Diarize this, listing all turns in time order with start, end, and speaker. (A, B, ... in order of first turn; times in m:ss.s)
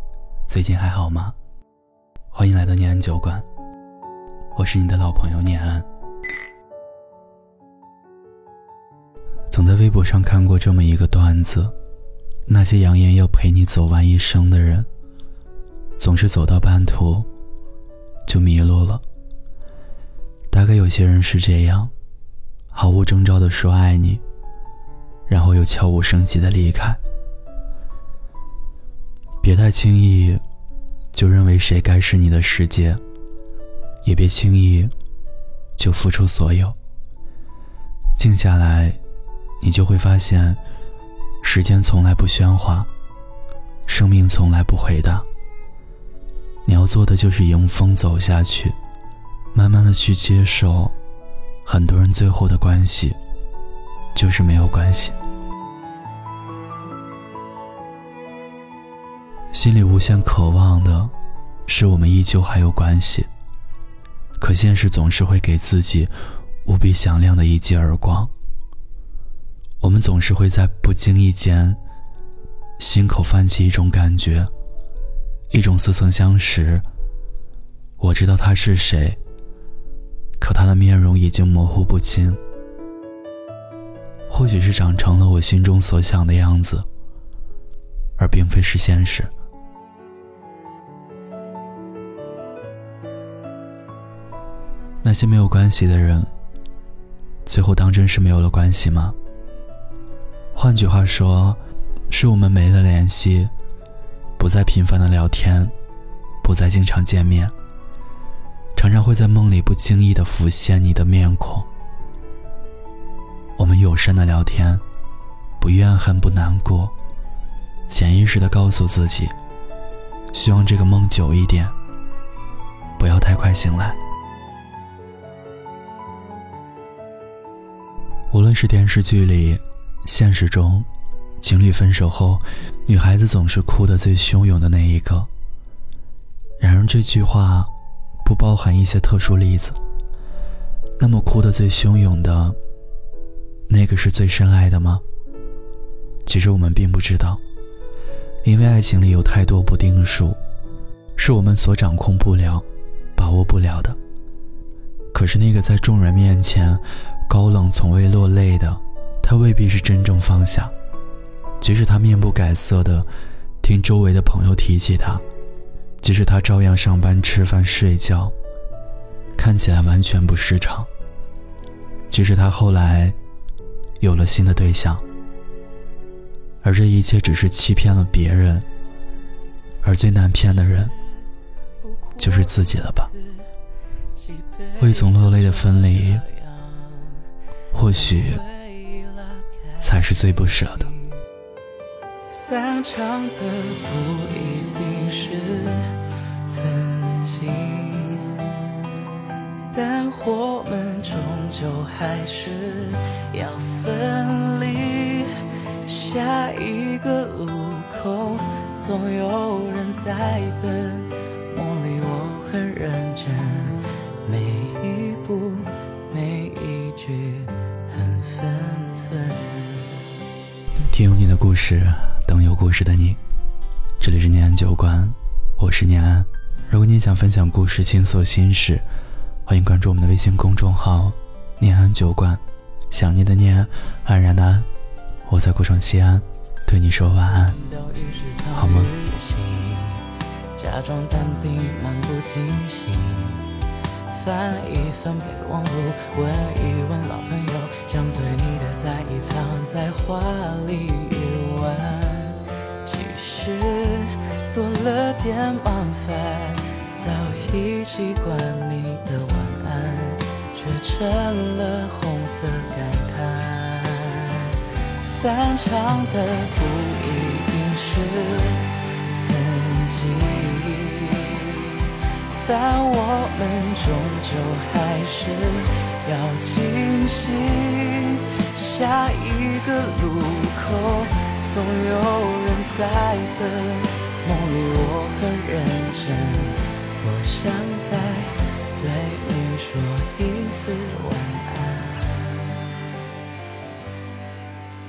0:00.5-0:01.3 A
0:02.3-0:03.5 A
0:04.5-0:05.9 A
0:09.5-0:11.7 A
0:12.4-0:14.9 A
0:16.0-0:17.3 A
0:18.3-0:19.0 A
0:20.5-0:21.9 A
0:22.7-0:24.2 A
0:25.3-0:27.0 A
0:29.4-0:30.4 A
0:31.1-0:33.0 A
0:34.0-0:34.9 A
0:35.8-0:36.8 A
0:38.2-0:39.0 A
0:39.6-0:40.6 A
0:41.4-0:42.9 A
0:43.9-0:45.3 A
0:46.6-0:48.8 A
0:49.5-0:51.0 A
0:51.6-0:53.2 A
0:54.2-0:55.2 A
0:59.5-1:01.1 A
1:01.7-1:03.3 A
1:04.4-1:06.1 A
1:06.6-1:08.3 A
1:09.8-1:11.8 A
1:12.8-1:14.5 A
1:15.5-1:16.8 A
1:18.0-1:19.2 A
1:20.4-1:22.4 A
1:24.3-1:26.9 A
1:28.2-1:29.3 A
1:35.0-1:36.3 A
1:37.4-1:39.2 A
1:40.5-1:43.5 A
1:44.4-1:45.7 A
1:46.4-1:47.5 A
1:48.8-1:51.7 A
1:53.6-1:54.8 A
1:55.6-1:56.9 A
1:57.9-1:59.3 A
2:00.3-2:01.8 A
2:03.0-2:04.0 A
2:08.3-2:10.9 A
2:11.4-2:15.3 A
2:16.6-2:17.7 A
2:18.2-2:19.8 A
2:21.0-2:22.6 A
2:23.7-2:25.0 A
2:26.2-2:27.4 A
2:28.4-2:30.4 A
2:31.2-2:32.6 A
2:33.2-2:34.0 A
2:35.1-2:40.7 A
2:41.6-2:43.1 A
2:43.6-2:45.2 A
2:46.0-2:48.3 A
2:49.4-2:50.9 A
2:52.1-2:53.2 A
2:54.0-2:55.0 A
2:56.6-2:58.7 A
2:59.8-3:00.9 A
3:01.8-3:03.5 B
3:02.2-3:03.1 A
3:04.2-3:07.2 B
3:04.8-3:06.2 A
3:07.7-3:08.4 A
3:08.0-3:11.2 B
3:09.8-3:10.9 A
3:12.3-3:18.5 B
3:19.7-3:40.0 B
3:40.8-3:43.2 A
3:44.0-3:48.8 A
3:49.5-3:54.7 A
3:55.2-3:57.6 A
3:57.3-4:53.1 B
3:58.5-3:58.9 A